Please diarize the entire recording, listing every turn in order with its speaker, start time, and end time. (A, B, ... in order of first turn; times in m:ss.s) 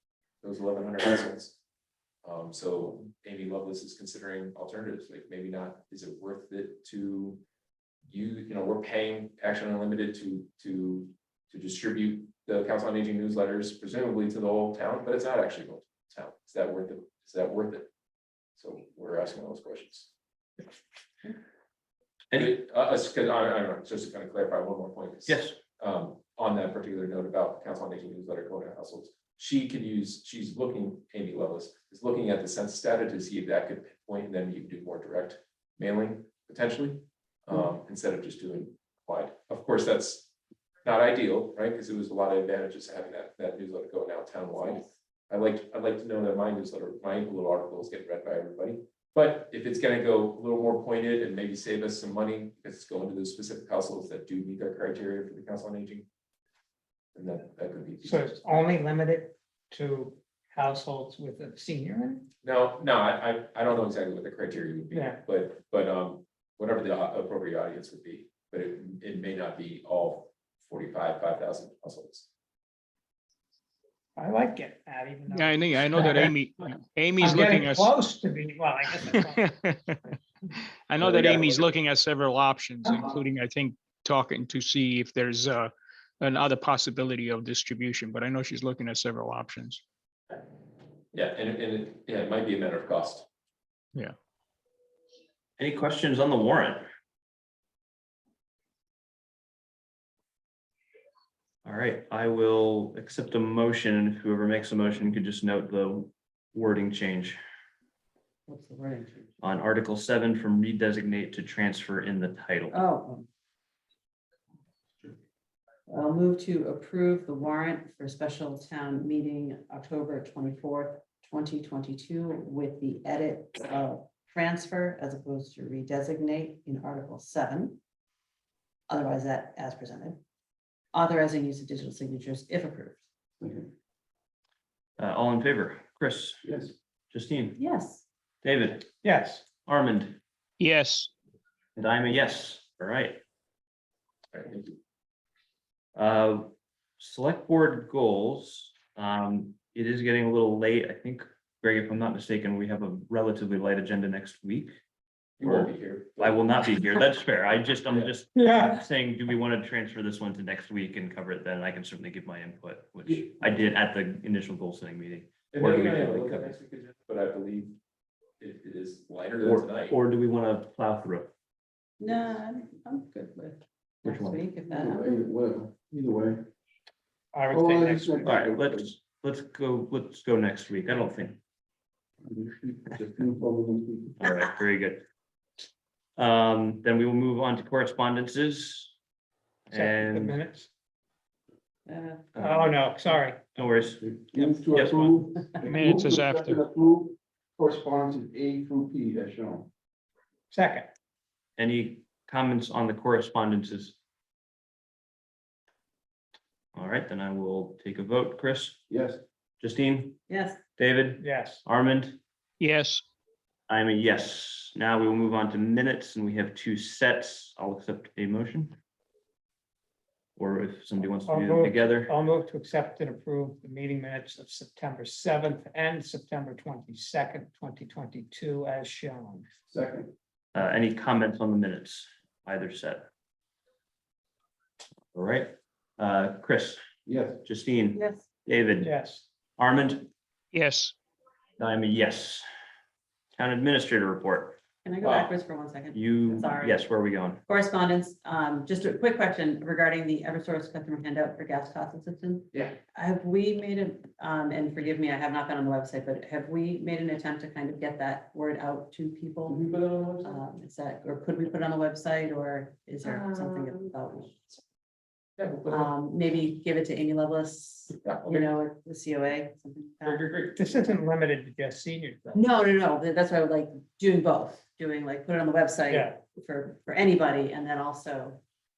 0:00.4-0:01.6 A
0:02.2-0:07.4 A
0:08.1-0:17.9 A
0:18.6-0:20.1 A
0:22.3-0:40.3 A
0:25.3-0:25.6 B
0:40.8-0:56.1 A
0:57.1-0:58.7 A
0:58.0-1:02.3 C
1:02.4-1:12.3 A
1:04.9-1:05.2 C
1:14.2-1:16.4 C
1:15.3-1:17.9 D
1:17.2-1:20.2 C
1:18.9-1:20.0 D
1:20.6-1:29.8 D
1:21.0-1:21.7 A
1:22.8-1:23.2 C
1:31.1-1:33.3 A
1:35.6-1:36.8 B
1:41.6-1:47.4 B
1:48.5-1:49.3 E
1:49.4-1:52.8 B
1:52.7-1:53.3 E
1:55.9-2:07.8 E
2:08.9-2:10.2 E
2:10.9-2:13.0 E
2:13.4-2:13.7 F
2:15.0-2:16.4 B
2:16.4-2:16.7 F
2:17.1-2:17.6 B
2:17.6-2:18.0 E
2:18.4-2:18.9 B
2:19.0-2:19.4 C
2:19.6-2:20.2 B
2:20.6-2:21.1 D
2:21.8-2:23.2 B
2:24.3-2:24.8 A
2:25.9-2:34.8 B
2:35.4-2:36.7 A
2:35.4-2:46.5 B
2:38.3-2:38.8 C
2:45.5-2:47.8 A
2:48.4-2:50.0 A
2:49.4-2:51.3 B
2:52.0-2:55.2 E
2:54.0-2:54.4 B
2:54.7-2:56.5 F
2:57.3-2:58.3 C
2:57.5-2:58.9 F
2:58.2-3:01.4 B
3:02.2-3:04.2 F
3:04.2-3:05.0 B
3:06.2-3:08.9 B
3:09.7-3:10.4 B
3:09.7-3:10.7 C
3:11.8-3:12.3 E
3:12.3-3:14.0 B
3:12.4-3:13.7 C
3:14.0-3:19.7 F
3:14.3-3:15.2 C
3:14.7-3:15.0 B
3:15.6-3:16.6 D
3:20.5-3:20.9 C
3:21.6-3:24.0 B
3:26.7-3:28.8 B
3:28.9-3:29.2 F
3:29.6-3:30.2 B
3:30.3-3:30.6 E
3:30.8-3:32.2 B
3:31.2-3:31.6 C
3:32.6-3:33.0 D
3:33.7-3:38.8 B
3:40.4-3:42.1 B
3:41.2-3:49.5 C
3:49.7-3:50.1 F
3:50.5-3:53.1 B
3:55.1-3:56.8 B
3:57.0-3:57.4 F
3:57.4-3:58.9 B
3:57.9-3:58.2 E
3:58.8-3:59.2 C
3:59.6-4:00.1 B
4:00.5-4:00.9 D
4:01.6-4:02.4 B
4:03.4-4:04.6 B
4:04.8-4:06.9 E
4:05.0-4:05.3 A
4:05.9-4:07.4 B
4:07.5-4:19.6 E
4:20.2-4:24.6 E
4:25.4-4:25.9 A
4:25.7-4:30.3 E
4:28.0-4:28.5 A
4:30.0-4:30.6 A
4:30.6-4:32.4 C
4:32.3-4:38.4 E
4:35.9-4:36.1 C